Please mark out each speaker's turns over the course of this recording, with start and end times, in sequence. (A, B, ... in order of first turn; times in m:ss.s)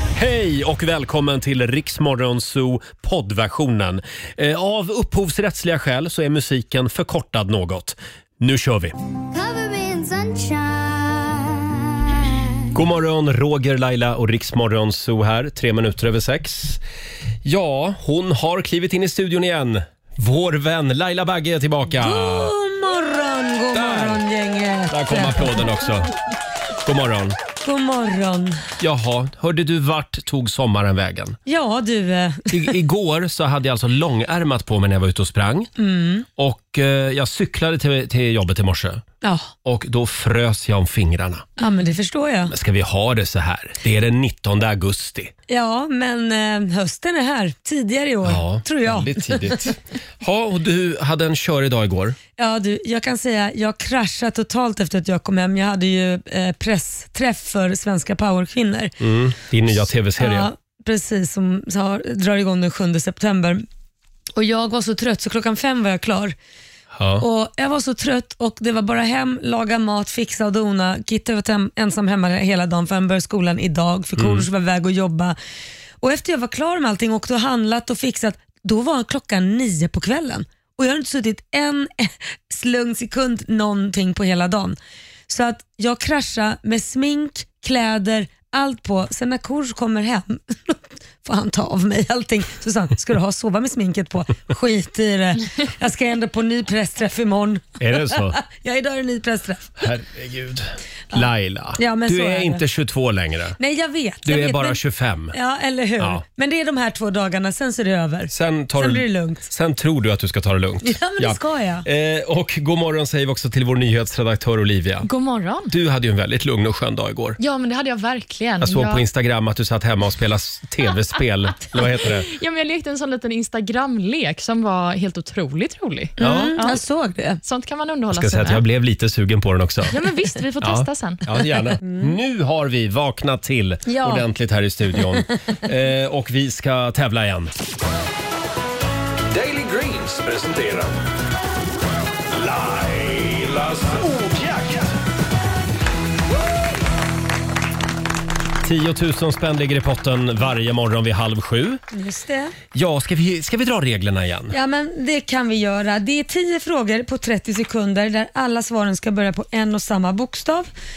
0:00.1-0:09.0 A
0:09.3-0:12.4 B
0:12.7-0:16.8 A
0:17.4-0:22.5 A
0:22.0-0:25.7 C
0:23.7-0:24.2 A
0:24.9-0:26.1 A
0:26.8-0:27.4 A
0:27.6-0:28.6 C
0:28.8-0:31.4 A
0:31.5-0:32.7 C
0:32.5-0:35.7 A
0:35.8-0:36.3 C
0:36.4-0:39.0 A
0:39.2-0:39.5 C
0:39.6-0:41.5 A
0:41.6-0:42.5 C
0:42.5-0:45.3 A
0:45.5-0:49.6 C
0:48.2-0:52.2 A
0:52.4-0:58.9 C
0:59.0-1:00.5 A
1:00.2-1:03.6 C
1:04.4-1:06.4 C
1:06.9-1:07.2 A
1:07.2-1:15.4 C
1:14.2-1:14.5 A
1:16.0-1:24.8 C
1:25.3-1:39.8 C
1:37.8-1:38.4 A
1:39.8-1:43.6 A
1:41.8-1:42.6 C
1:43.6-1:44.8 C
1:44.2-1:45.4 A
1:45.3-1:49.5 C
1:48.3-1:55.1 A
1:50.8-1:51.9 C
1:55.0-1:55.7 D
1:55.7-1:57.4 A
1:57.4-1:59.0 D
1:58.6-2:02.3 A
2:02.0-2:06.8 D
2:06.2-2:07.4 C
2:06.2-2:06.6 A
2:07.4-2:08.6 D
2:08.1-2:10.0 A
2:09.9-2:11.2 D
2:10.6-2:17.5 A
2:11.8-2:12.2 C
2:13.9-2:14.3 C
2:19.3-2:21.0 E
2:22.3-2:24.9 E
2:28.6-2:31.8 A
2:31.9-2:32.6 C
2:32.7-2:34.6 A
2:34.5-2:40.7 C